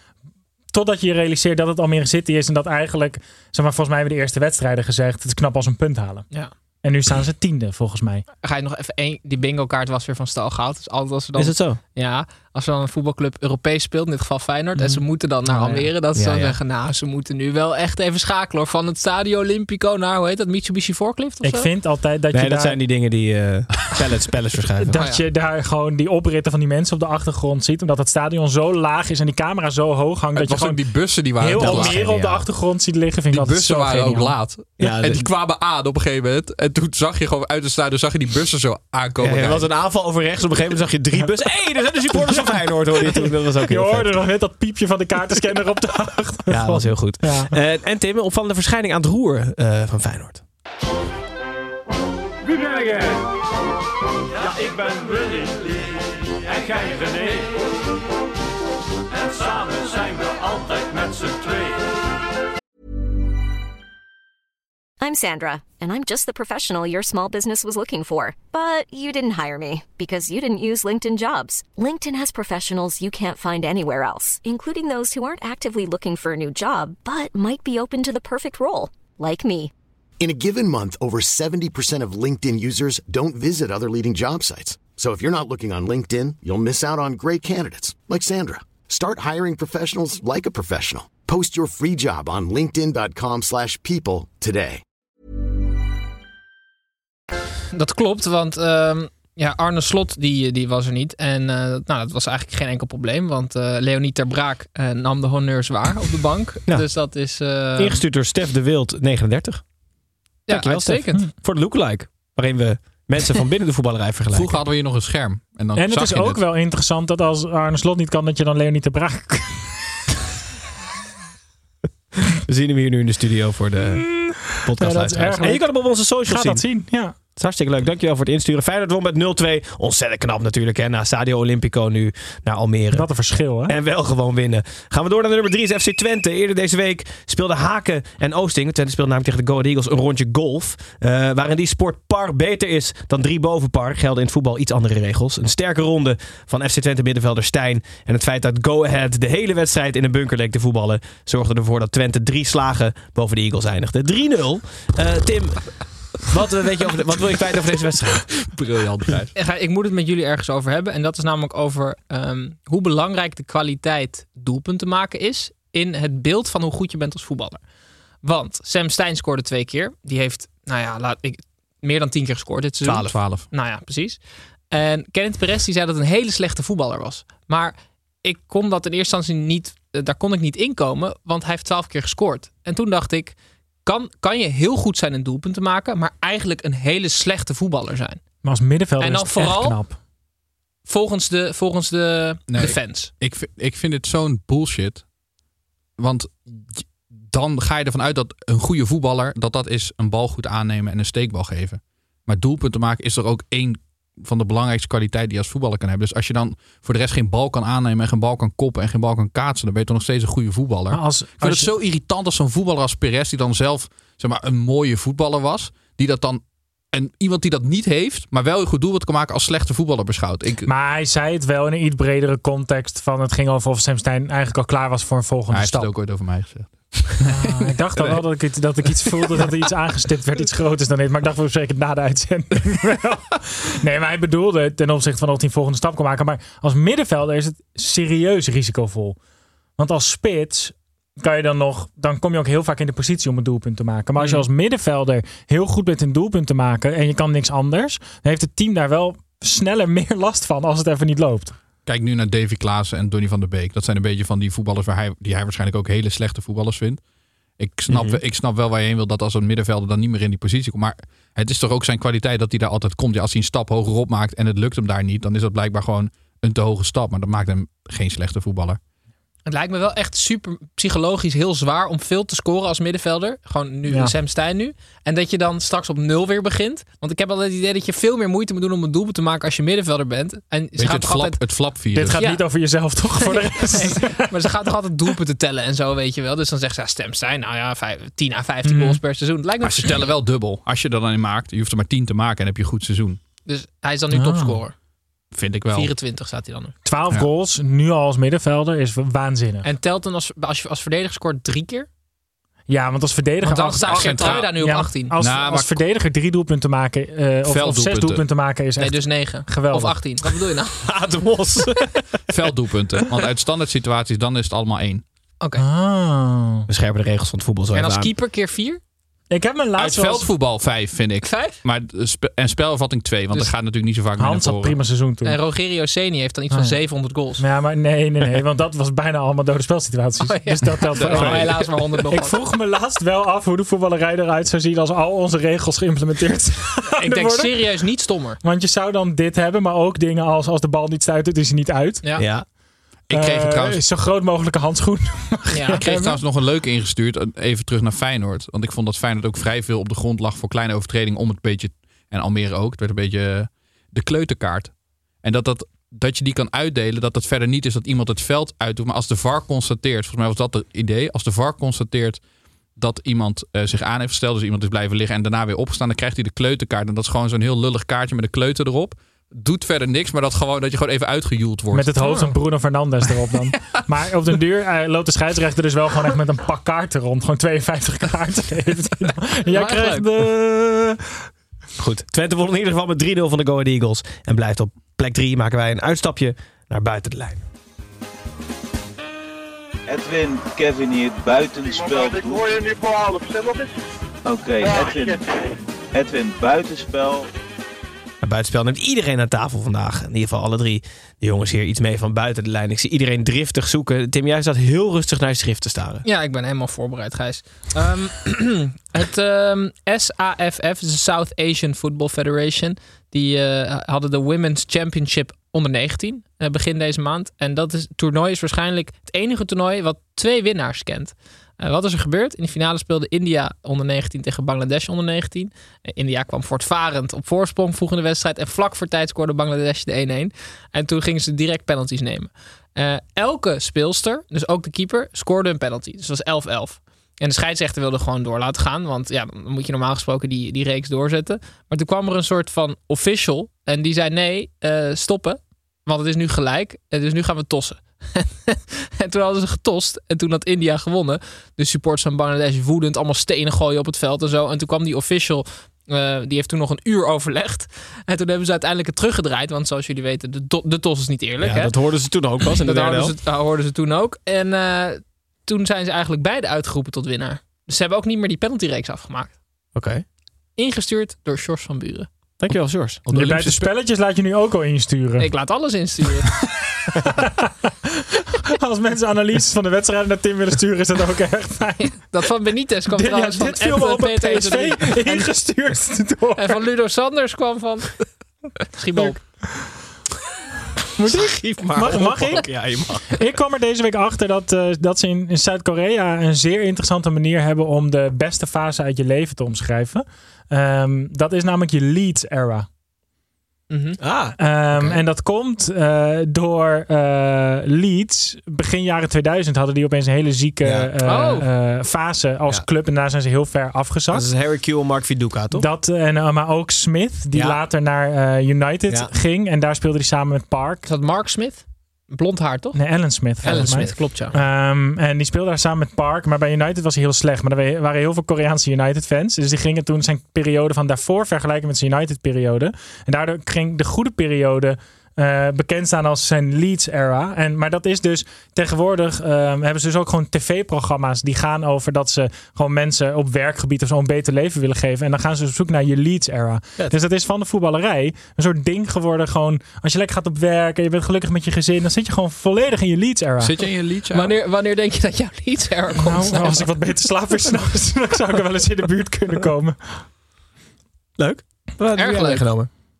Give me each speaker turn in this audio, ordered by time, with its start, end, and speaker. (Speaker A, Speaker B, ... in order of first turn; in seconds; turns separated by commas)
Speaker A: 0.7-6.3, Speaker A: 6.8-8.2, Speaker B: 8.4-21.7, Speaker C: 11.3-11.8, Speaker C: 15.5-16.6, Speaker A: 21.4-22.8, Speaker C: 22.3-25.0, Speaker A: 24.8-30.8, Speaker B: 24.9-25.2, Speaker D: 30.3-32.1, Speaker A: 31.3-34.3, Speaker C: 31.5-32.5, Speaker D: 33.3-39.7, Speaker C: 34.8-35.3, Speaker C: 39.2-44.2, Speaker A: 42.1-47.5, Speaker C: 46.5-50.4, Speaker E: 65.0-79.7, Speaker F: 80.2-94.8, Speaker B: 97.7-108.0, Speaker C: 107.8-109.7, Speaker B: 110.5-111.3, Speaker C: 110.5-114.6, Speaker D: 114.3-116.4, Speaker A: 115.8-119.7, Speaker C: 122.4-126.7, Speaker A: 124.1-127.2, Speaker C: 127.3-158.3, Speaker A: 132.9-133.7, Speaker D: 158.5-159.3, Speaker B: 159.3-167.6, Speaker B: 168.2-188.2, Speaker D: 172.8-173.5, Speaker A: 188.4-190.0, Speaker B: 189.0-189.8, Speaker B: 190.8-193.1, Speaker D: 192.5-195.1, Speaker D: 196.0-220.7, Speaker A: 210.9-211.7, Speaker A: 220.7-225.9, Speaker D: 225.5-228.2, Speaker A: 227.2-239.2, Speaker A: 239.8-251.6, Speaker B: 244.2-244.4, Speaker D: 251.8-257.0, Speaker D: 257.6-268.8, Speaker C: 257.9-258.2, Speaker B: 269.5-281.4, Speaker D: 280.8-282.2, Speaker A: 281.9-284.5, Speaker B: 282.1-282.5, Speaker B: 283.2-290.1, Speaker A: 288.6-289.0, Speaker D: 289.6-293.2, Speaker B: 293.4-294.7, Speaker A: 294.1-294.6, Speaker D: 295.3-295.9, Speaker B: 295.7-296.7, Speaker A: 296.8-299.7, Speaker B: 299.6-301.9, Speaker A: 302.7-310.0, Speaker B: 303.4-305.4, Speaker D: 303.9-304.6, Speaker D: 305.2-305.8, Speaker D: 307.5-308.2, Speaker B: 308.8-310.8, Speaker C: 310.8-312.0, Speaker D: 312.3-315.0, Speaker A: 315.6-316.7, Speaker C: 316.7-318.1, Speaker B: 317.7-318.8, Speaker A: 319.3-320.3, Speaker D: 319.8-324.8, Speaker B: 321.2-321.6, Speaker A: 324.2-325.4, Speaker B: 325.2-327.4, Speaker A: 326.5-326.8, Speaker A: 327.4-331.5, Speaker B: 330.2-332.4, Speaker D: 330.9-331.7, Speaker A: 332.1-337.6, Speaker B: 336.9-338.4, Speaker A: 338.4-342.0, Speaker B: 342.0-342.3, Speaker C: 342.2-342.4, Speaker D: 343.1-343.8, Speaker A: 343.1-346.2, Speaker B: 345.5-345.8, Speaker D: 345.8-362.2, Speaker D: 362.7-371.9, Speaker A: 371.7-381.0, Speaker B: 372.0-372.3, Speaker B: 379.5-380.1, Speaker C: 381.8-387.4, Speaker G: 389.9-392.6, Speaker H: 391.7-393.7, Speaker G: 394.2-395.2, Speaker H: 394.6-395.2, Speaker G: 395.9-397.3, Speaker C: 398.2-406.0, Speaker B: 406.0-461.7, Speaker C: 461.4-463.1, Speaker B: 462.6-469.4, Speaker C: 469.7-470.0, Speaker B: 470.6-472.1, Speaker C: 472.4-473.0, Speaker D: 473.1-473.7, Speaker A: 473.1-475.3, Speaker B: 475.2-476.4, Speaker A: 477.0-477.5, Speaker A: 478.5-482.0, Speaker B: 482.0-485.3, Speaker A: 482.9-486.6, Speaker B: 486.4-488.0, Speaker B: 488.6-489.2, Speaker A: 491.0-502.7, Speaker C: 491.3-493.1, Speaker B: 503.7-504.0, Speaker C: 504.0-505.0, Speaker A: 504.4-514.3, Speaker C: 510.6-511.3, Speaker B: 511.0-511.4, Speaker C: 514.1-515.6, Speaker A: 515.5-520.8, Speaker C: 517.3-517.6, Speaker B: 520.8-524.3, Speaker A: 522.7-553.5, Speaker C: 523.4-524.1, Speaker D: 553.4-554.3, Speaker B: 554.1-556.7, Speaker A: 556.0-560.0, Speaker C: 561.2-562.7, Speaker B: 562.0-562.6